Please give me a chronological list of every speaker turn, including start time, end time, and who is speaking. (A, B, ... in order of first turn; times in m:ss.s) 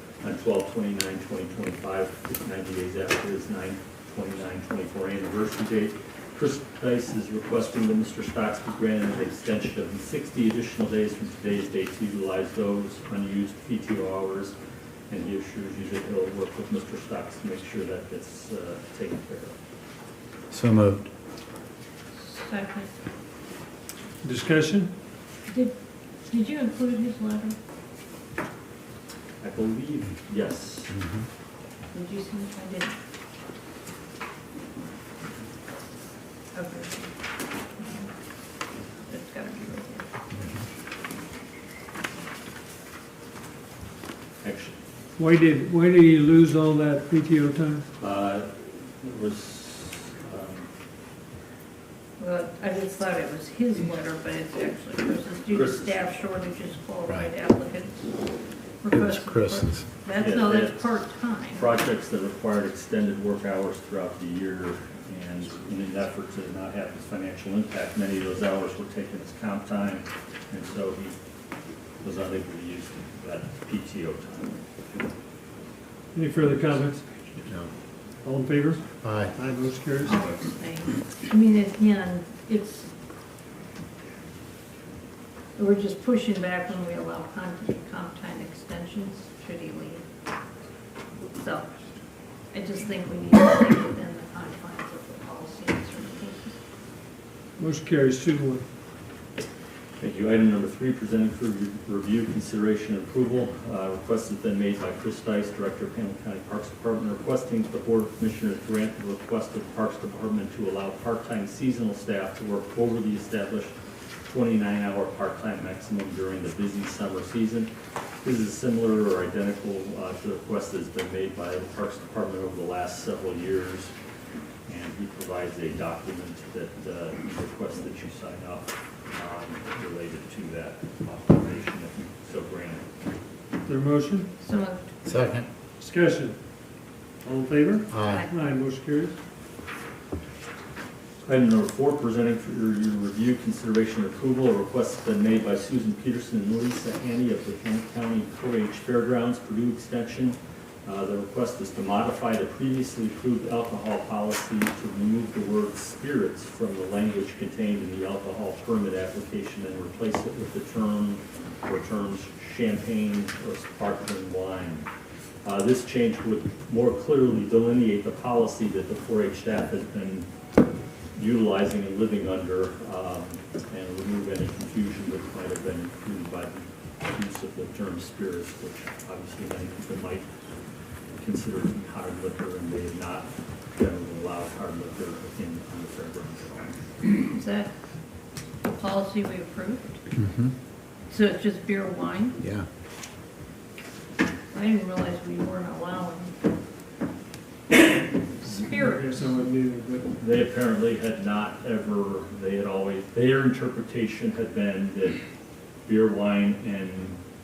0:00.2-0:14.5 A
0:15.1-0:19.6 A
0:20.5-0:21.1 B
0:22.2-0:22.9 C
0:24.2-0:24.9 D
0:25.5-0:25.7 C
0:26.3-0:27.6 C
0:29.4-0:31.0 A
0:31.9-0:33.0 C
0:36.5-0:37.1 C
0:37.7-0:38.1 C
0:39.1-0:40.1 C
0:44.4-0:44.8 A
0:45.2-0:47.8 D
0:48.0-0:50.7 A
0:52.2-0:58.1 C
0:55.5-0:56.2 A
0:58.8-1:01.7 C
0:58.9-0:59.8 B
1:00.1-1:00.9 A
1:01.5-1:11.2 A
1:12.0-1:14.6 A
1:16.1-1:17.2 D
1:18.2-1:20.1 D
1:19.0-1:19.3 B
1:20.0-1:22.9 C
1:25.6-1:30.0 C
1:31.3-1:31.7 C
1:32.5-1:36.6 C
1:37.6-1:38.6 D
1:40.0-1:53.7 A
1:54.2-1:57.7 A
1:58.2-2:03.9 A
2:04.6-2:12.9 A
2:13.7-2:14.3 D
2:14.4-2:15.3 C
2:15.0-2:15.4 B
2:15.8-2:16.4 D
2:17.2-2:19.2 D
2:17.9-2:18.2 B
2:18.0-2:18.3 C
2:21.2-2:44.9 A
2:45.4-2:50.3 A
2:51.2-3:00.3 A
3:01.2-3:06.8 A
3:07.2-3:07.7 C
3:08.7-3:10.0 C
3:10.2-3:10.5 B
3:11.1-3:12.4 C
3:14.5-3:16.3 C
3:18.4-3:19.3 C
3:18.6-3:20.1 D
3:20.2-3:25.2 A
3:25.8-3:27.2 A